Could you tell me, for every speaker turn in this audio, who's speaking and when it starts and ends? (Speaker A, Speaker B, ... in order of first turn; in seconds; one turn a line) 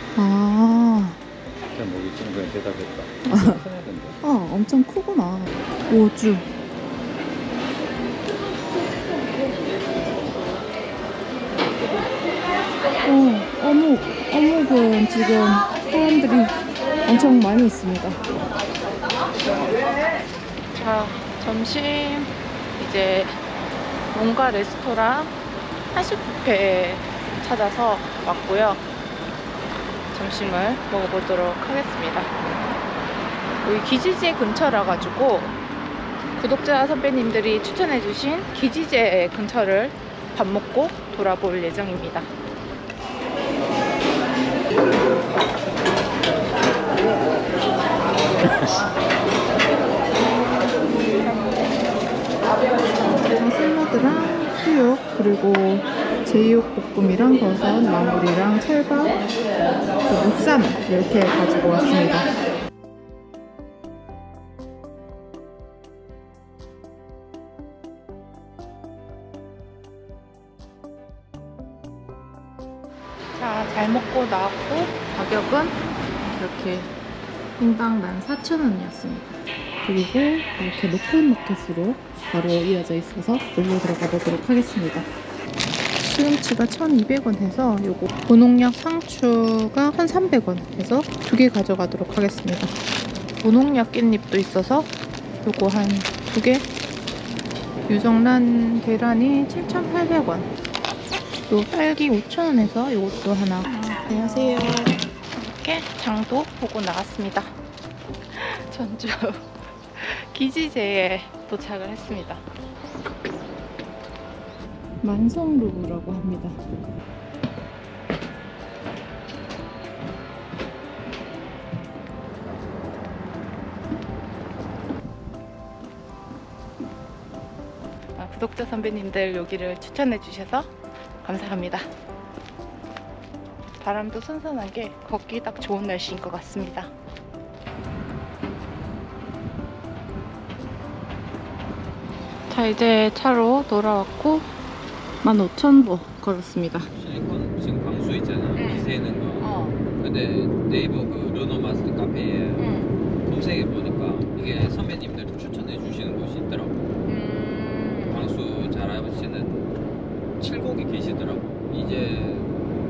Speaker A: 0.1-1.2
Speaker B: 1.7-4.2
Speaker A: 3.2-3.6
Speaker A: 4.2-6.5
Speaker A: 13.0-18.3
Speaker A: 20.7-23.4
Speaker A: 24.1-25.3
Speaker A: 25.9-28.8
Speaker A: 30.1-32.3
Speaker A: 33.6-35.5
Speaker A: 36.4-42.3
Speaker B: 48.4-48.8
Speaker A: 53.0-59.2
Speaker A: 60.0-62.3
Speaker A: 73.4-75.8
Speaker A: 76.3-76.9
Speaker A: 77.6-85.1
Speaker A: 86.0-92.7
Speaker A: 93.4-94.9
Speaker A: 95.4-96.7
Speaker A: 97.9-100.5
Speaker A: 101.5-107.5
Speaker A: 108.3-112.4
Speaker A: 115.0-116.6
Speaker A: 128.2-131.9
Speaker A: 133.8-136.9
Speaker A: 142.5-144.5
Speaker A: 145.2-146.9
Speaker B: 146.9-156.8
Speaker A: 148.5-149.8
Speaker A: 152.6-152.9
Speaker A: 157.1-158.3
Speaker B: 158.1-159.7
Speaker B: 160.4-162.6